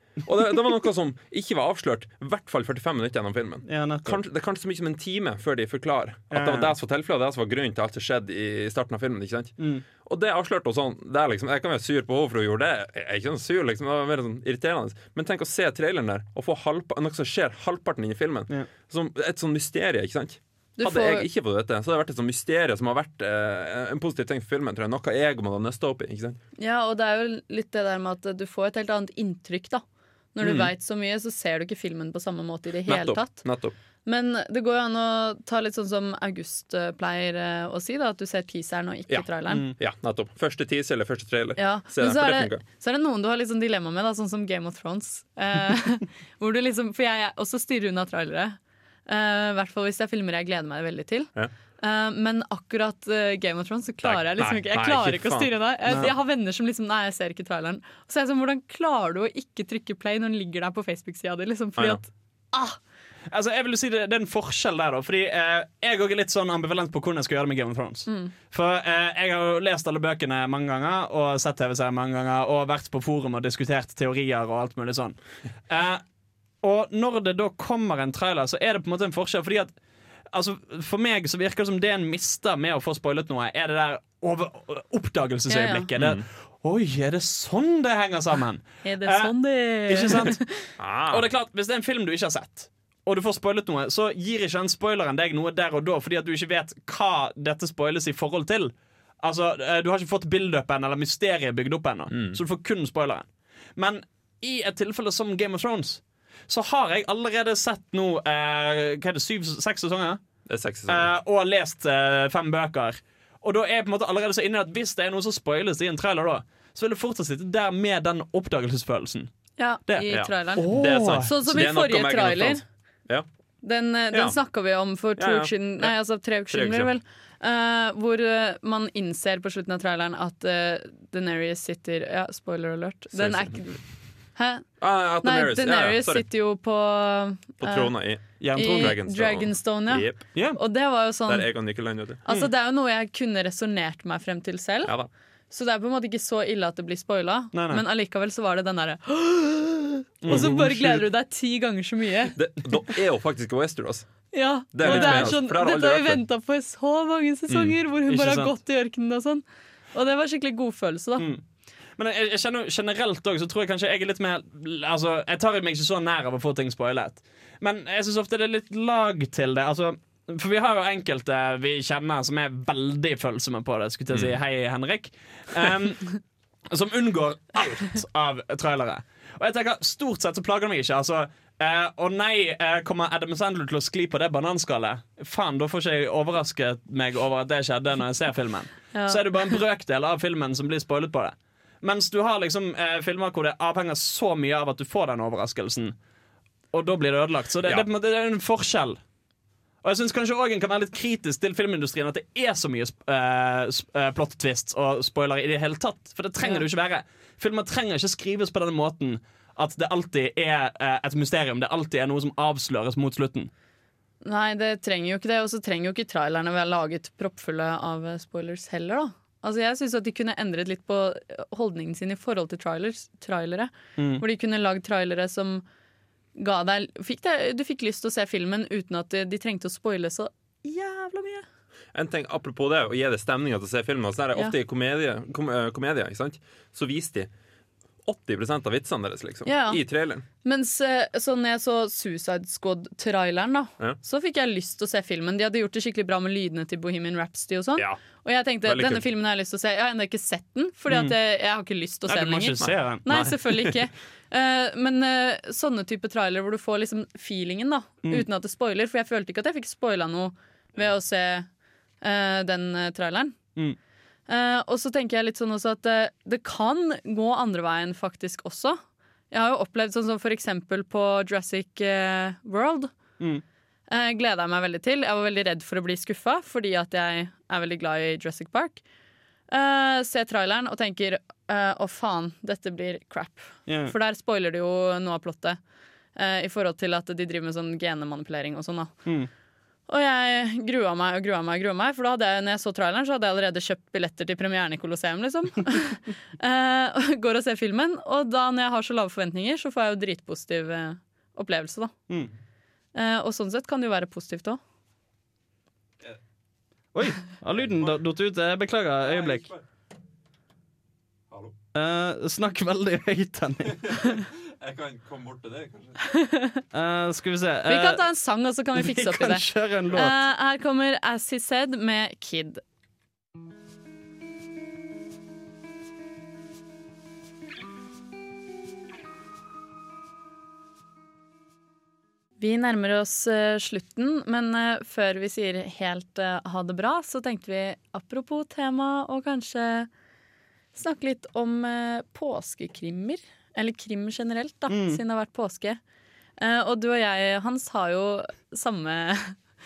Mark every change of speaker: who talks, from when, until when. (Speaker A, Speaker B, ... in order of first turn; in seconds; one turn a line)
Speaker A: 0.2-26.4
Speaker B: 3.6-4.2
Speaker B: 6.3-6.7
Speaker B: 9.6-9.8
Speaker C: 20.8-21.2
Speaker C: 26.6-29.8
Speaker C: 30.3-33.5
Speaker A: 30.4-30.7
Speaker A: 32.9-33.7
Speaker C: 34.0-39.6
Speaker A: 39.1-42.6
Speaker B: 39.5-39.8
Speaker C: 41.6-62.8
Speaker A: 54.0-56.1
Speaker A: 61.8-62.0
Speaker B: 63.3-76.0
Speaker C: 68.1-68.3
Speaker B: 76.6-79.7
Speaker B: 80.3-90.4
Speaker C: 85.5-85.9
Speaker A: 86.0-86.2
Speaker C: 88.8-90.7
Speaker A: 90.8-91.2
Speaker B: 91.1-110.2
Speaker A: 102.1-102.4
Speaker A: 110.5-111.1
Speaker B: 110.9-119.3
Speaker C: 119.6-122.6
Speaker B: 119.9-121.3
Speaker A: 120.1-123.2
Speaker C: 123.6-133.8
Speaker A: 124.1-124.4
Speaker A: 125.2-126.9
Speaker A: 133.1-133.7
Speaker C: 134.3-134.7
Speaker A: 134.8-136.2
Speaker C: 135.2-137.9
Speaker A: 137.6-140.3
Speaker B: 138.4-138.9
Speaker C: 138.5-141.7
Speaker B: 140.3-140.6
Speaker A: 141.3-142.2
Speaker C: 142.2-144.9
Speaker C: 145.5-152.3
Speaker B: 147.5-147.8
Speaker B: 150.2-151.0
Speaker A: 150.3-150.6
Speaker A: 152.3-156.2
Speaker C: 154.3-161.3
Speaker B: 154.8-155.4
Speaker A: 157.5-157.7
Speaker B: 158.1-158.5
Speaker B: 161.2-161.4
Speaker B: 162.0-195.9
Speaker A: 174.1-174.4
Speaker C: 188.9-189.2
Speaker B: 196.7-199.0
Speaker B: 199.8-213.5
Speaker C: 214.2-225.6
Speaker B: 223.9-224.2
Speaker C: 226.3-231.4
Speaker A: 231.9-237.3
Speaker A: 238.0-240.2
Speaker C: 239.4-239.8
Speaker C: 240.4-261.5
Speaker A: 248.6-249.0
Speaker B: 252.1-253.0
Speaker A: 252.6-253.7
Speaker C: 262.0-263.4
Speaker C: 264.3-268.8
Speaker C: 269.3-272.9
Speaker C: 273.9-278.8
Speaker C: 279.5-285.6
Speaker B: 283.6-283.9
Speaker C: 286.1-288.9
Speaker C: 289.9-301.9
Speaker C: 302.9-304.6
Speaker B: 306.9-309.5
Speaker A: 307.6-308.0
Speaker A: 309.0-309.6
Speaker B: 311.7-314.0
Speaker A: 313.7-316.0
Speaker C: 316.0-316.6
Speaker B: 316.7-318.0
Speaker C: 317.6-322.6
Speaker B: 318.7-320.1
Speaker C: 332.4-339.9
Speaker C: 340.7-345.8
Speaker B: 344.7-345.0
Speaker C: 346.4-349.4